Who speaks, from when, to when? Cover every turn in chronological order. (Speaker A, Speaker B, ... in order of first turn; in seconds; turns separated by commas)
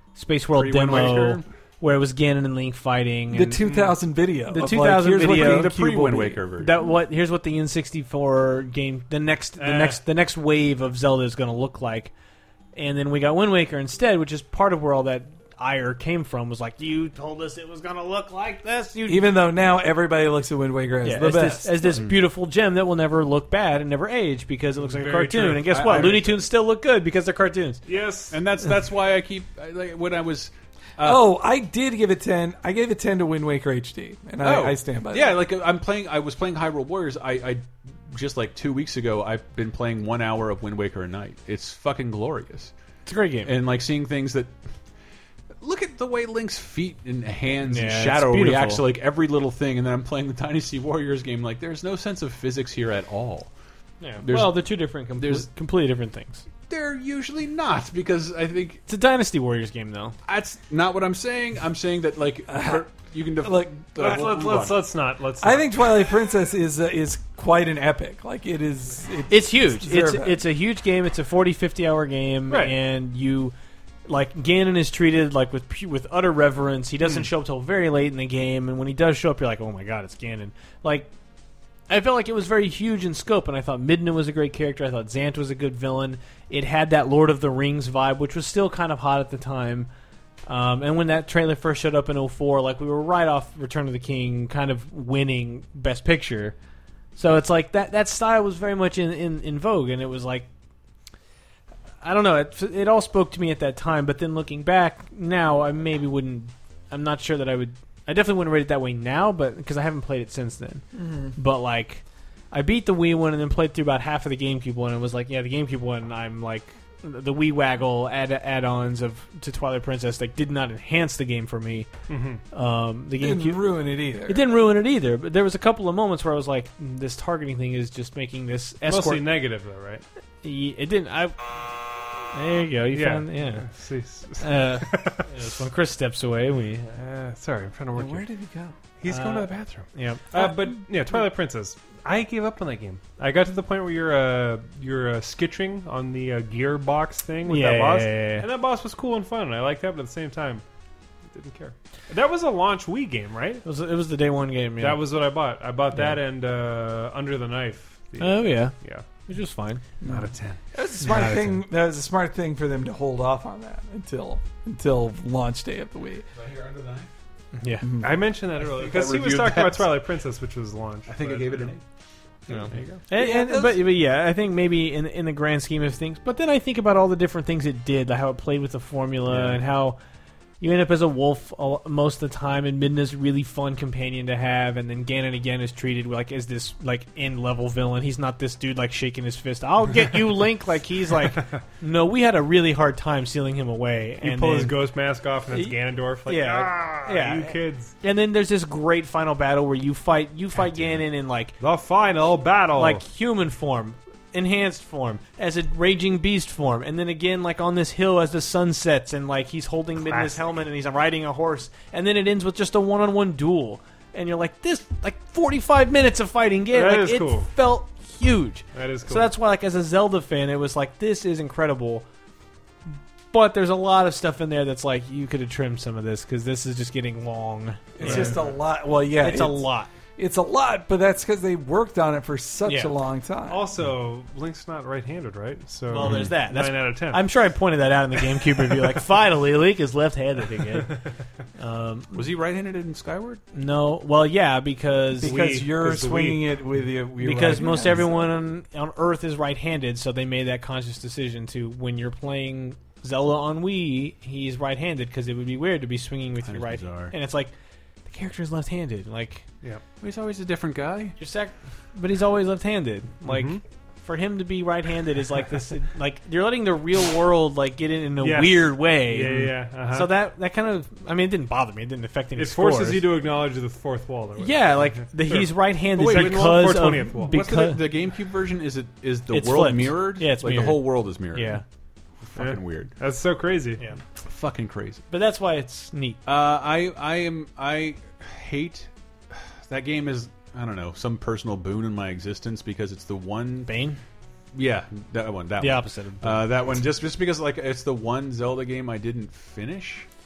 Speaker A: 0.1-3.7, Speaker B: 0.5-1.4, Speaker C: 3.3-6.4, Speaker D: 3.6-4.0, Speaker A: 4.5-6.0, Speaker B: 5.2-6.8, Speaker A: 6.5-12.1, Speaker D: 9.6-10.0, Speaker A: 12.7-19.3, Speaker C: 19.1-21.9, Speaker A: 21.0-27.8, Speaker D: 24.8-26.2, Speaker B: 25.7-26.4, Speaker D: 27.9-28.4, Speaker B: 28.3-31.3, Speaker C: 31.0-35.4, Speaker B: 34.4-42.7, Speaker A: 43.0-43.5, Speaker B: 43.4-44.6, Speaker B: 45.6-53.5, Speaker A: 47.6-48.8, Speaker A: 54.0-56.4, Speaker B: 54.2-55.5, Speaker B: 56.7-58.8, Speaker A: 58.9-60.1, Speaker B: 60.2-64.8, Speaker C: 62.5-62.8, Speaker C: 63.4-64.5, Speaker D: 64.0-66.0, Speaker C: 65.4-70.4, Speaker A: 69.3-73.5, Speaker D: 72.5-72.7, Speaker A: 74.0-81.1, Speaker A: 81.9-89.9, Speaker A: 90.5-96.5, Speaker A: 97.2-100.5, Speaker A: 102.0-121.9, Speaker C: 110.9-111.3, Speaker D: 122.1-122.4, Speaker A: 122.5-123.7, Speaker C: 123.2-124.5, Speaker A: 124.2-129.2, Speaker D: 128.9-130.0, Speaker A: 130.4-131.7, Speaker A: 132.3-133.7, Speaker D: 132.9-135.3, Speaker A: 134.4-136.9, Speaker D: 136.9-138.2, Speaker C: 137.9-138.7, Speaker D: 139.0-150.6, Speaker A: 139.0-140.3, Speaker A: 147.4-148.5, Speaker D: 151.3-153.6, Speaker A: 153.6-155.0, Speaker D: 154.8-159.0, Speaker A: 155.9-156.2, Speaker A: 158.2-159.8, Speaker D: 160.0-161.5, Speaker C: 160.0-166.2, Speaker B: 166.3-167.1, Speaker A: 167.6-167.9, Speaker C: 167.8-168.1, Speaker D: 168.0-171.7, Speaker B: 168.6-169.9, Speaker B: 171.1-171.8, Speaker A: 172.5-180.0, Speaker D: 172.5-173.0, Speaker C: 173.1-173.8, Speaker B: 179.3-179.6, Speaker A: 180.6-194.8, Speaker D: 194.2-197.9, Speaker A: 195.5-201.6, Speaker B: 200.6-201.0, Speaker D: 201.6-203.0, Speaker A: 202.8-222.0, Speaker D: 210.0-210.4, Speaker D: 216.7-217.5, Speaker D: 218.7-219.3, Speaker A: 223.3-228.4, Speaker C: 227.9-233.7, Speaker D: 228.0-228.4, Speaker A: 229.1-229.9, Speaker A: 232.6-232.9, Speaker D: 233.5-237.2, Speaker A: 235.9-241.0, Speaker B: 236.0-236.3, Speaker A: 241.6-242.2, Speaker B: 242.1-243.4, Speaker A: 243.5-245.4, Speaker C: 245.2-248.2, Speaker D: 245.2-246.6, Speaker A: 247.2-257.5, Speaker B: 256.4-257.1, Speaker A: 258.1-259.4, Speaker B: 260.0-261.1, Speaker A: 261.2-273.0, Speaker D: 263.2-263.6, Speaker D: 268.2-270.1, Speaker D: 272.4-277.3, Speaker A: 274.4-277.9, Speaker B: 276.0-281.6, Speaker A: 279.3-281.6, Speaker B: 282.2-282.9, Speaker D: 282.4-283.8, Speaker B: 284.2-285.0, Speaker A: 285.1-286.2, Speaker B: 286.2-293.7, Speaker A: 293.6-294.0, Speaker B: 294.5-300.1, Speaker A: 295.6-296.5